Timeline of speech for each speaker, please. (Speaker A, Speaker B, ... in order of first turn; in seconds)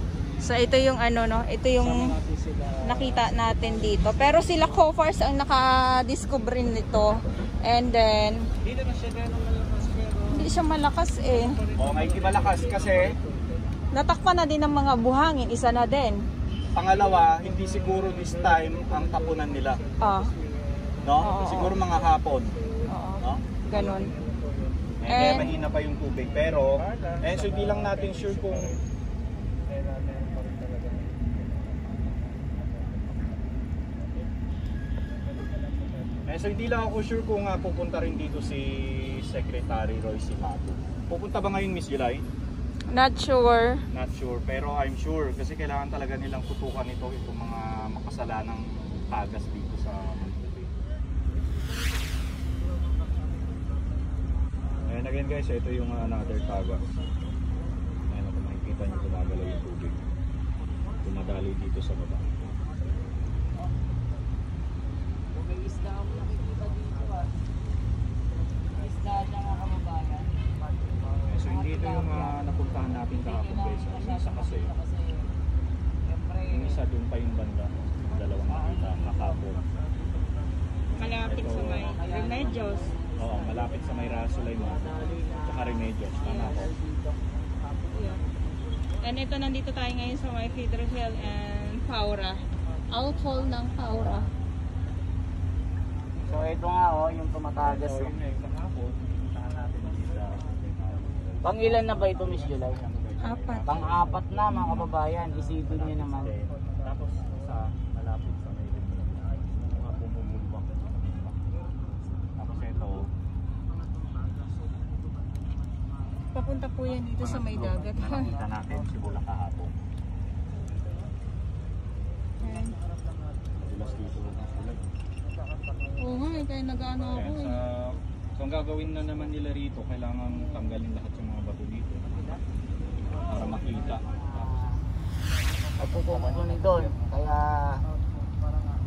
Speaker A: 0.4-2.1, 2.8-8.4, 10.3-11.6, 13.9-16.2, 20.0-20.3, 21.2-21.8, 22.9-24.1, 25.1-25.5, 42.9-43.8, 81.0-82.9, 86.2-86.6, 87.9-88.2, 89.0-92.4, 92.9-94.3, 103.2-103.7, 116.3-118.4, 122.4-122.8, 126.0-127.6
Speaker B: 1.8-4.8, 8.6-10.5, 11.3-13.5, 17.1-21.2, 23.7-25.6, 26.4-28.8, 29.7-31.1, 133.2-134.5, 136.1-136.9
Speaker C: 11.8-13.1, 16.8-19.8, 21.0-22.6, 23.2-23.5, 25.0-28.8, 36.3-42.2, 43.9-50.7, 54.9-56.8, 58.1-60.0, 61.0-62.3, 71.3-74.7, 76.5-79.6, 81.1-81.9, 83.2-86.7, 97.6-104.9, 105.7-111.4, 112.4-113.1, 117.2-119.7, 123.7-124.8, 127.1-132.3, 133.2-134.2
Speaker D: 65.3-67.3, 68.8-70.3, 71.5-75.3, 76.1-76.8, 81.4-87.2, 96.2-98.1, 101.4-102.8, 103.7-106.3, 134.2-134.8, 135.8-137.8